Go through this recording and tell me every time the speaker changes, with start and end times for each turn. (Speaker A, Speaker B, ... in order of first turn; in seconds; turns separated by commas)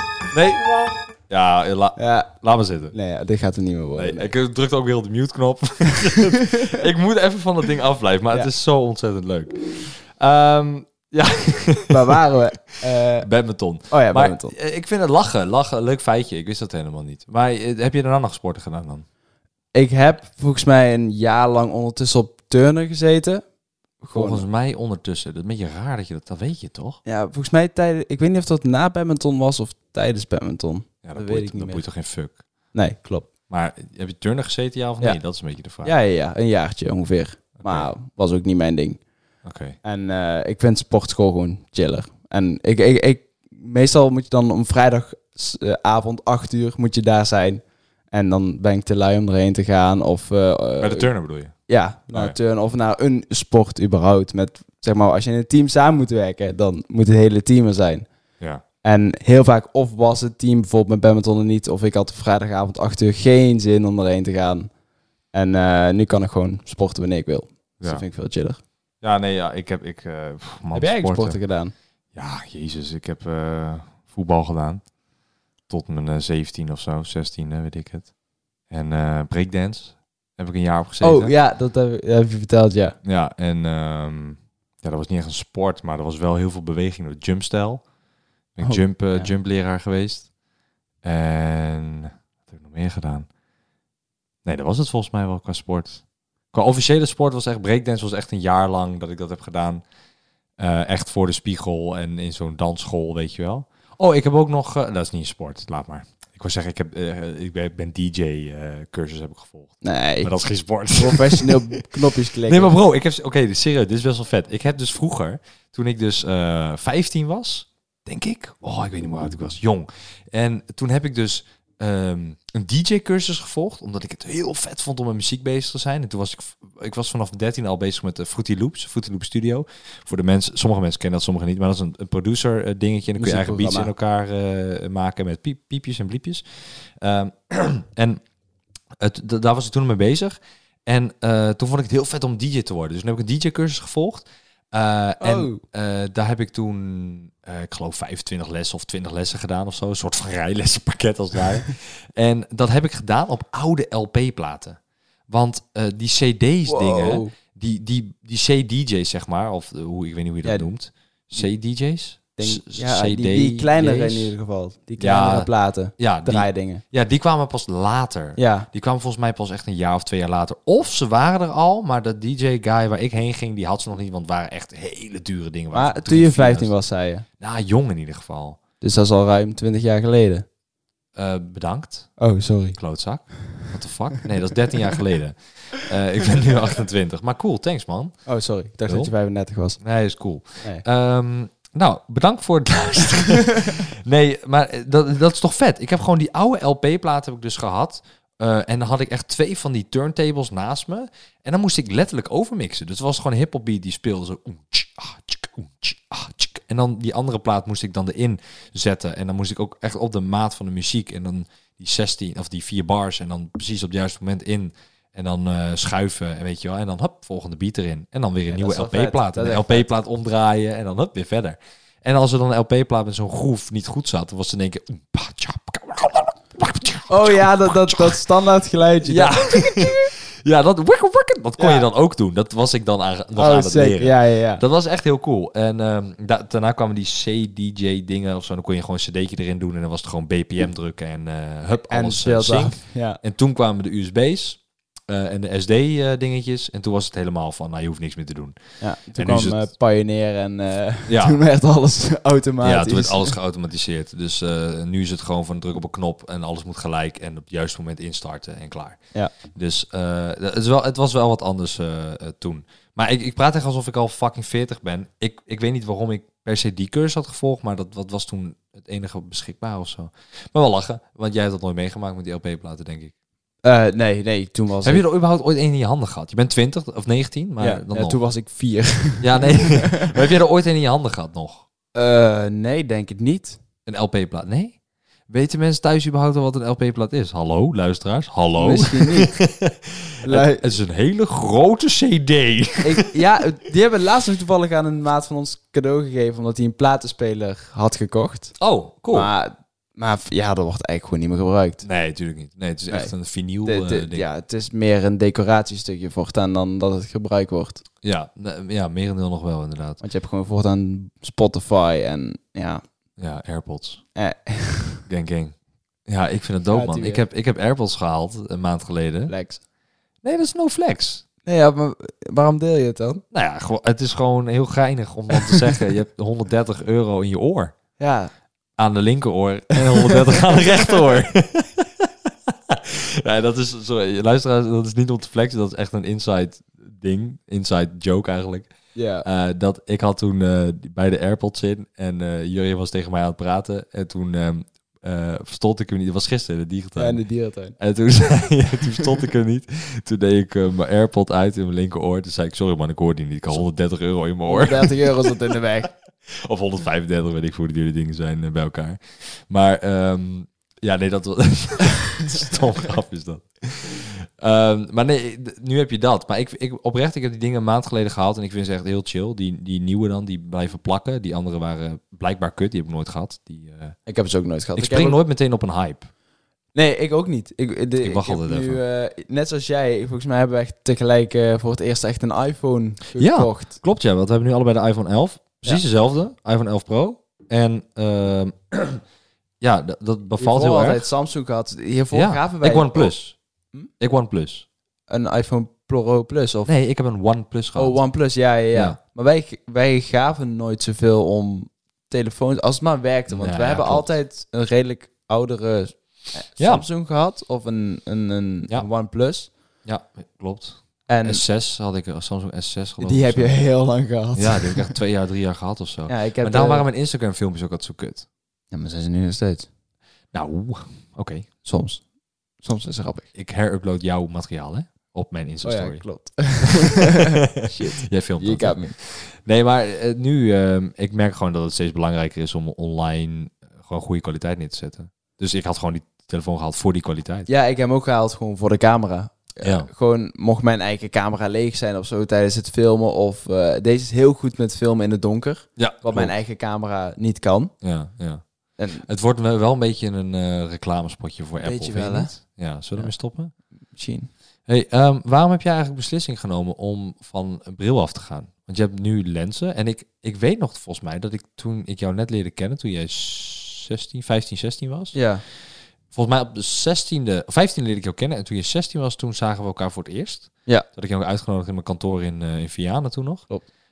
Speaker A: 0.3-0.7, Speaker A: 1.3-2.9, Speaker B: 2.0-2.3, Speaker B: 2.9-4.3, Speaker A: 4.0-12.2, Speaker B: 11.9-13.3, Speaker A: 13.2-19.1, Speaker B: 13.9-14.5, Speaker B: 19.7-23.4, Speaker B: 24.0-24.4, Speaker A: 24.1-27.0, Speaker B: 27.1-31.9, Speaker A: 31.0-32.4, Speaker B: 32.7-33.3, Speaker A: 33.5-35.9, Speaker B: 35.8-39.0, Speaker A: 37.6-37.9, Speaker A: 39.4-39.8, Speaker B: 39.8-51.1, Speaker A: 50.8-51.5, Speaker B: 51.7-58.1, Speaker A: 52.1-52.4, Speaker B: 58.8-64.7, Speaker B: 65.3-68.6, Speaker A: 69.0-71.4, Speaker B: 70.7-71.7, Speaker A: 72.2-74.9, Speaker A: 75.7-78.1, Speaker A: 78.7-81.3, Speaker B: 81.0-83.0, Speaker A: 83.0-87.9, Speaker A: 88.5-90.3, Speaker B: 88.6-89.3, Speaker A: 91.0-93.3, Speaker A: 94.5-99.8, Speaker A: 100.6-111.8, Speaker B: 109.8-110.3, Speaker B: 110.9-112.8, Speaker A: 112.4-138.2, Speaker B: 133.2-133.9, Speaker A: 139.0-164.4, Speaker B: 145.2-145.6, Speaker B: 156.7-157.3, Speaker B: 160.4-160.7, Speaker B: 162.4-166.8, Speaker A: 165.0-176.8, Speaker B: 168.4-168.7, Speaker B: 175.7-177.2, Speaker A: 177.4-178.6, Speaker B: 178.8-180.5, Speaker A: 181.2-182.2, Speaker B: 182.2-182.8, Speaker A: 182.8-188.2, Speaker B: 188.3-189.8, Speaker A: 188.9-189.1, Speaker A: 189.8-228.2, Speaker B: 218.5-219.9, Speaker B: 227.1-230.1, Speaker A: 229.0-249.7, Speaker B: 231.6-231.9, Speaker B: 233.3-234.6, Speaker B: 241.9-243.2, Speaker B: 248.8-253.4, Speaker A: 251.1-251.4, Speaker A: 252.6-273.1, Speaker B: 273.6-275.1, Speaker A: 274.8-278.2, Speaker B: 277.6-280.1, Speaker A: 279.2-281.6, Speaker B: 281.9-283.6, Speaker A: 283.9-293.1, Speaker B: 288.6-289.3, Speaker B: 290.2-290.7, Speaker B: 292.8-298.6, Speaker A: 298.6-299.3, Speaker B: 299.1-301.8, Speaker A: 301.8-304.3, Speaker B: 303.6-307.8, Speaker A: 308.0-310.0, Speaker B: 310.0-312.8, Speaker A: 313.2-314.0, Speaker B: 314.1-315.0, Speaker A: 315.1-319.3, Speaker B: 316.7-317.2, Speaker B: 319.3-319.6, Speaker A: 320.2-321.2, Speaker B: 321.5-323.2, Speaker A: 323.3-327.7, Speaker B: 328.0-328.3, Speaker A: 328.8-347.2, Speaker B: 338.9-339.3, Speaker B: 347.0-347.8, Speaker A: 347.8-355.5, Speaker B: 354.5-355.9, Speaker A: 356.3-374.0, Speaker B: 374.1-375.2, Speaker A: 374.8-376.1, Speaker B: 376.7-383.8, Speaker A: 378.0-378.8, Speaker A: 383.2-389.0, Speaker A: 389.6-391.1, Speaker B: 390.4-393.2, Speaker A: 392.1-393.4, Speaker A: 394.0-394.7, Speaker B: 395.1-396.7, Speaker A: 396.6-398.0, Speaker B: 397.8-409.5, Speaker A: 398.7-399.0, Speaker A: 403.3-404.1, Speaker A: 406.6-406.9, Speaker A: 409.8-413.7, Speaker B: 411.1-411.4, Speaker B: 413.0-415.0, Speaker A: 414.3-418.3, Speaker B: 416.1-416.9, Speaker B: 418.7-419.7, Speaker A: 420.3-421.5, Speaker B: 421.6-422.1, Speaker B: 422.6-423.3, Speaker A: 423.4-437.5, Speaker B: 425.6-428.9, Speaker B: 437.5-447.7, Speaker A: 439.6-439.9, Speaker A: 445.8-446.3, Speaker A: 447.8-453.5, Speaker B: 448.8-449.1, Speaker B: 451.6-452.4, Speaker B: 452.9-454.3, Speaker A: 454.7-465.2, Speaker B: 465.1-465.4, Speaker A: 466.1-473.5